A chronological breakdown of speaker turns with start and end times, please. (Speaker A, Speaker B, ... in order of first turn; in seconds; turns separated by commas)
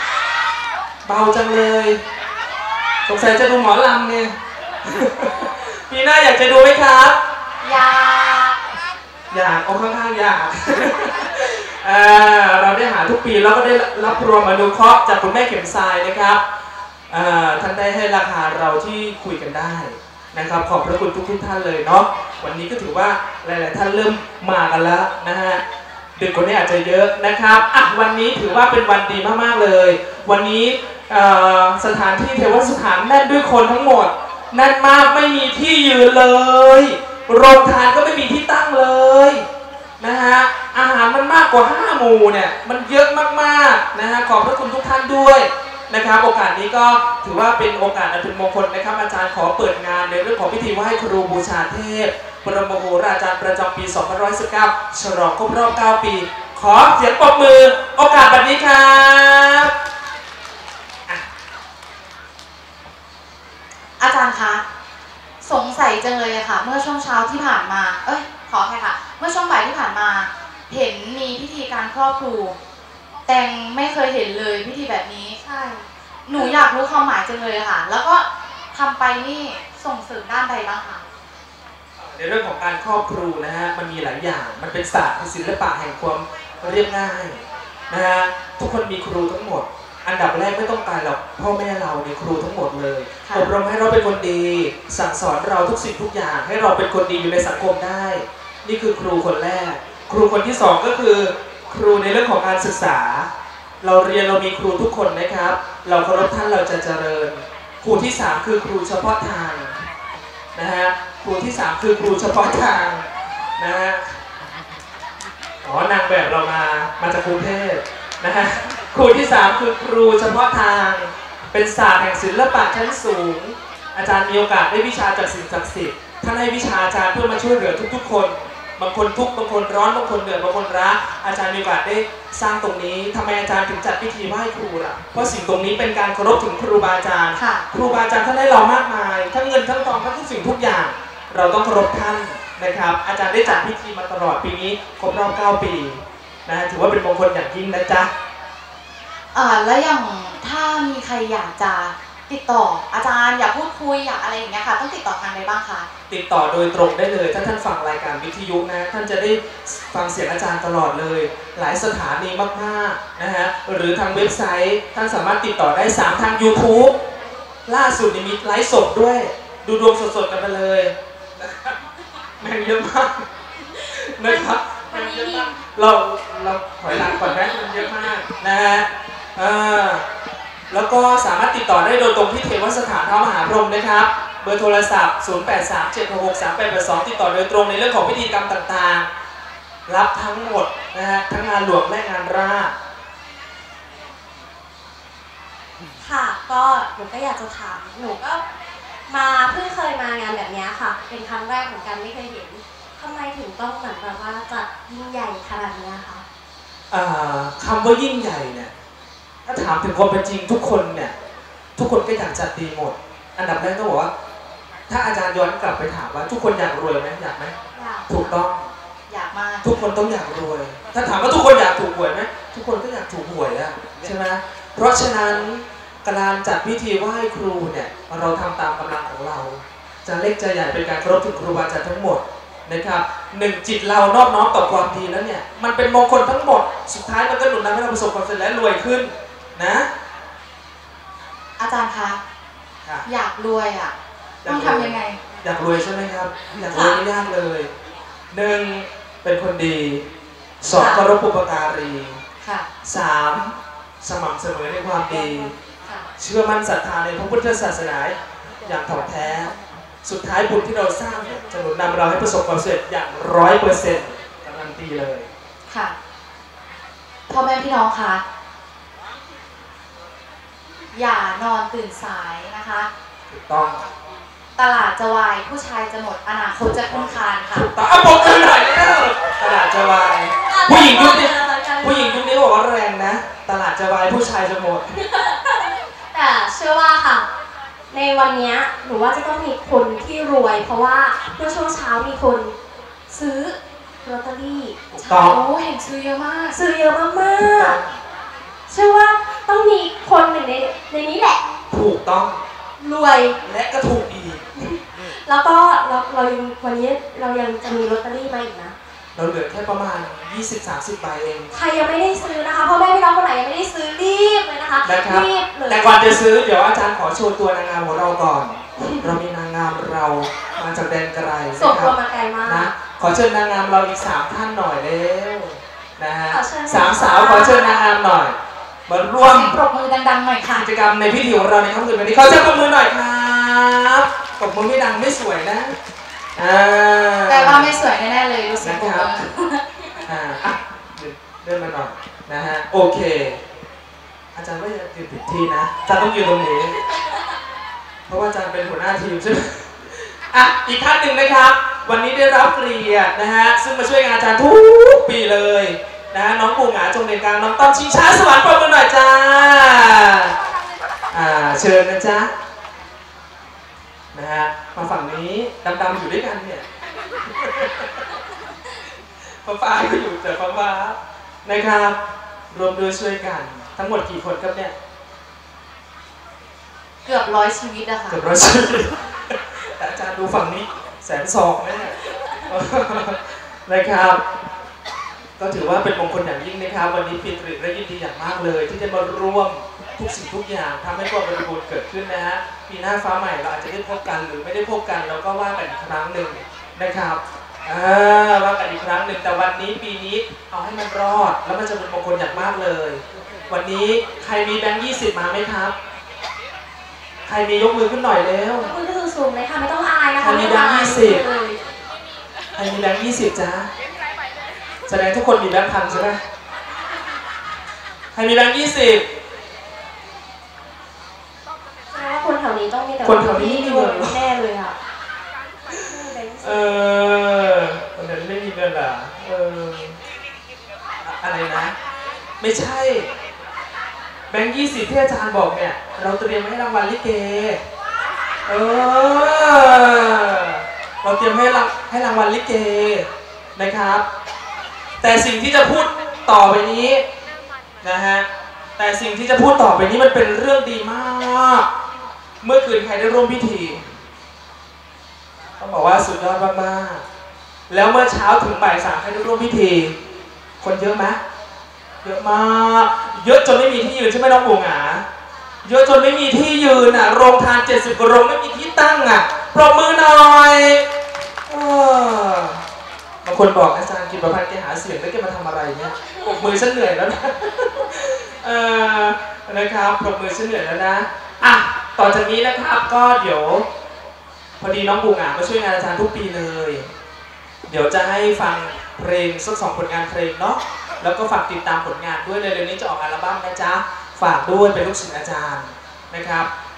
Speaker A: 1.0-2.0, Speaker A: 3.1-7.2, Speaker B: 7.6-8.6, Speaker A: 9.3-16.4, Speaker A: 17.1-25.6, Speaker A: 26.2-39.4, Speaker A: 40.0-59.7, Speaker B: 64.0-64.6, Speaker B: 65.4-72.5, Speaker B: 73.3-75.4, Speaker C: 75.4-76.6, Speaker B: 76.3-81.0, Speaker A: 82.0-103.3, Speaker A: 103.8-109.8, Speaker A: 110.5-114.2, Speaker A: 115.6-148.1, Speaker B: 137.3-137.6, Speaker B: 149.3-155.9, Speaker A: 156.1-166.9, Speaker A: 167.7-171.8, Speaker A: 172.4-173.3, Speaker C: 173.7-175.6, Speaker A: 173.9-180.0, Speaker C: 176.9-177.9, Speaker A: 180.7-189.1, Speaker A: 189.9-192.7, Speaker C: 196.0-198.4, Speaker C: 199.1-206.2, Speaker A: 206.9-208.7, Speaker A: 209.4-211.1, Speaker A: 211.8-214.1, Speaker A: 214.9-217.5, Speaker B: 217.7-218.3, Speaker A: 218.1-218.7, Speaker B: 219.1-219.7, Speaker A: 219.6-239.9, Speaker B: 241.6-242.2, Speaker B: 243.1-243.9, Speaker A: 244.4-247.7, Speaker B: 244.4-245.2, Speaker B: 246.6-247.0, Speaker A: 248.3-250.1, Speaker A: 250.6-252.2, Speaker B: 250.7-251.1, Speaker B: 252.4-252.7, Speaker A: 252.8-255.5, Speaker B: 255.2-256.1, Speaker A: 256.2-265.3, Speaker B: 265.7-265.9, Speaker B: 267.3-268.2, Speaker B: 270.9-272.9, Speaker A: 273.3-273.9, Speaker B: 274.6-277.6, Speaker A: 276.6-284.9, Speaker C: 280.4-282.2, Speaker C: 284.9-287.2, Speaker C: 287.9-292.5, Speaker C: 293.1-294.7, Speaker A: 294.9-295.4, Speaker B: 295.0-296.6, Speaker C: 296.5-297.8, Speaker A: 297.4-298.0, Speaker C: 298.7-301.4, Speaker A: 301.7-302.4, Speaker C: 302.8-303.4, Speaker A: 303.4-304.5, Speaker C: 304.6-308.7, Speaker A: 309.1-311.5, Speaker C: 311.5-316.0, Speaker A: 314.8-328.4, Speaker C: 318.8-319.1, Speaker C: 321.5-322.7, Speaker C: 326.3-327.8, Speaker A: 328.9-329.6, Speaker B: 329.2-330.7, Speaker A: 330.5-335.8, Speaker A: 336.4-337.7, Speaker B: 337.3-339.6, Speaker A: 338.6-339.1, Speaker A: 340.0-343.4, Speaker A: 344.3-346.8, Speaker C: 346.9-347.2, Speaker A: 348.1-360.3, Speaker A: 361.1-362.3, Speaker A: 364.1-366.6, Speaker A: 367.3-367.9, Speaker A: 369.4-372.0, Speaker A: 372.5-374.7, Speaker B: 377.0-378.2, Speaker A: 378.1-384.2, Speaker A: 385.4-405.7, Speaker A: 407.2-408.7, Speaker C: 408.6-411.6, Speaker A: 410.2-411.2, Speaker A: 412.5-413.7, Speaker A: 414.9-416.2, Speaker A: 418.1-419.0, Speaker C: 421.9-424.8, Speaker A: 423.0-424.2, Speaker C: 425.7-426.8, Speaker A: 426.4-430.0, Speaker A: 431.0-431.7, Speaker A: 432.4-433.1, Speaker A: 434.3-437.6, Speaker A: 438.4-444.0, Speaker A: 445.0-447.0, Speaker A: 447.8-448.2, Speaker A: 448.8-451.6, Speaker A: 452.4-454.0, Speaker A: 455.6-457.0, Speaker A: 457.7-460.0, Speaker A: 460.6-461.2, Speaker A: 462.0-465.1, Speaker A: 465.6-470.8, Speaker A: 471.5-472.6, Speaker A: 473.2-483.7, Speaker C: 476.1-476.4, Speaker A: 484.6-486.9, Speaker A: 487.7-496.5